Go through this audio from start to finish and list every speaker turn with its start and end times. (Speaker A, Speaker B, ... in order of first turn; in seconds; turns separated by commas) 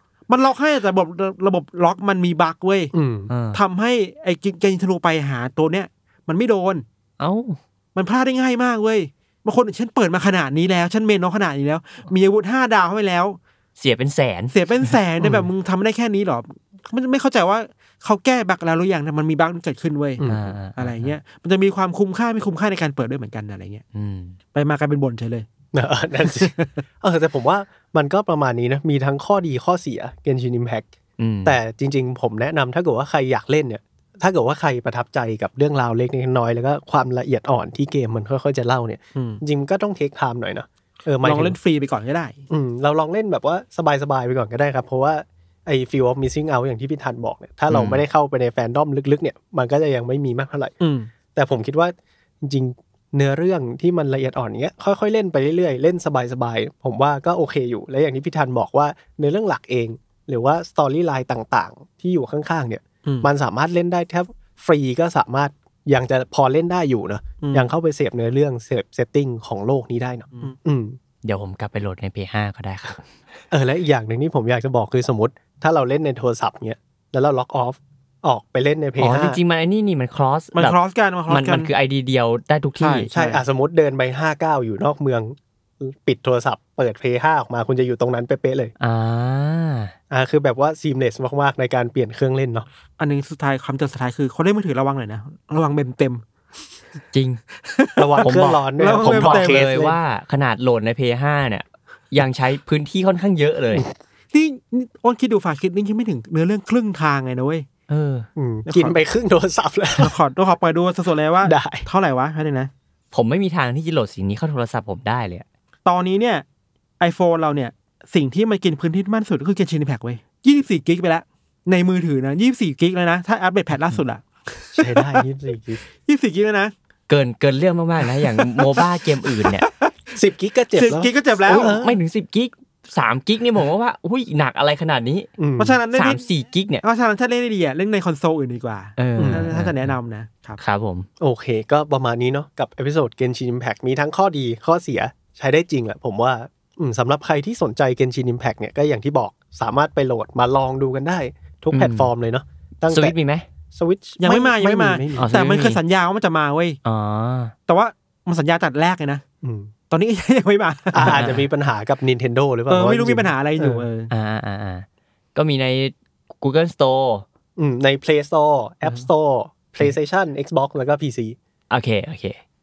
Speaker A: 0.3-2.9, Speaker B: 2.9-3.3, Speaker C: 3.3-3.6, Speaker A: 3.5-6.8, Speaker C: 7.2-7.6, Speaker A: 7.9-13.4, Speaker C: 13.8-14.9, Speaker A: 14.5-20.2, Speaker B: 15.2-15.5, Speaker B: 20.2-20.5, Speaker C: 20.2-21.1, Speaker A: 20.8-23.8, Speaker C: 23.9-24.4, Speaker A: 24.5-25.5, Speaker B: 25.7-30.9, Speaker A: 26.2-26.8, Speaker C: 31.2-31.6, Speaker B: 31.4-41.5, Speaker A: 39.1-39.4, Speaker A: 41.2-42.4, Speaker B: 42.5-50.7, Speaker C: 47.7-48.0, Speaker A: 50.8-51.1, Speaker B: 51.3-71.0, Speaker A: 67.4-67.7, Speaker C: 71.2-73.1, Speaker B: 73.5-79.4, Speaker C: 79.0-80.8, Speaker A: 80.5-81.7, Speaker C: 81.3-83.1, Speaker A: 82.8-83.4, Speaker B: 83.1-88.7, Speaker C: 88.8-89.9, Speaker B: 90.1-92.7, Speaker A: 93.0-96.2, Speaker C: 97.1-97.4, Speaker A: 97.7-99.7, Speaker B: 98.0-100.0, Speaker C: 98.2-103.8, Speaker A: 104.3-107.7, Speaker C: 107.9-108.3, Speaker B: 108.3-110.1, Speaker A: 108.7-109.0, Speaker A: 110.0-112.7, Speaker B: 111.4-111.8, Speaker C: 113.1-115.4, Speaker A: 115.8-116.4, Speaker A: 117.0-125.2, Speaker B: 124.8-125.8, Speaker A: 126.0-126.7, Speaker C: 127.1-129.7, Speaker A: 128.2-128.8, Speaker A: 129.4-129.9, Speaker B: 130.2-132.0, Speaker A: 130.8-131.7, Speaker C: 131.4-135.3, Speaker B: 135.4-135.8, Speaker A: 135.6-136.2, Speaker C: 135.9-136.8, Speaker A: 136.8-140.6, Speaker C: 139.0-139.9, Speaker B: 139.2-139.6, Speaker C: 140.6-141.1, Speaker B: 141.2-153.1, Speaker C: 151.7-152.1, Speaker C: 152.9-153.4, Speaker B: 153.7-155.3, Speaker A: 154.2-156.8, Speaker C: 155.2-155.8, Speaker C: 156.8-157.5, Speaker A: 157.7-159.2, Speaker B: 159.4-159.7, Speaker A: 159.9-161.2, Speaker B: 160.9-163.8, Speaker C: 161.0-161.5, Speaker A: 162.7-164.1, Speaker C: 164.1-167.2, Speaker B: 167.6-171.3, Speaker C: 171.7-172.4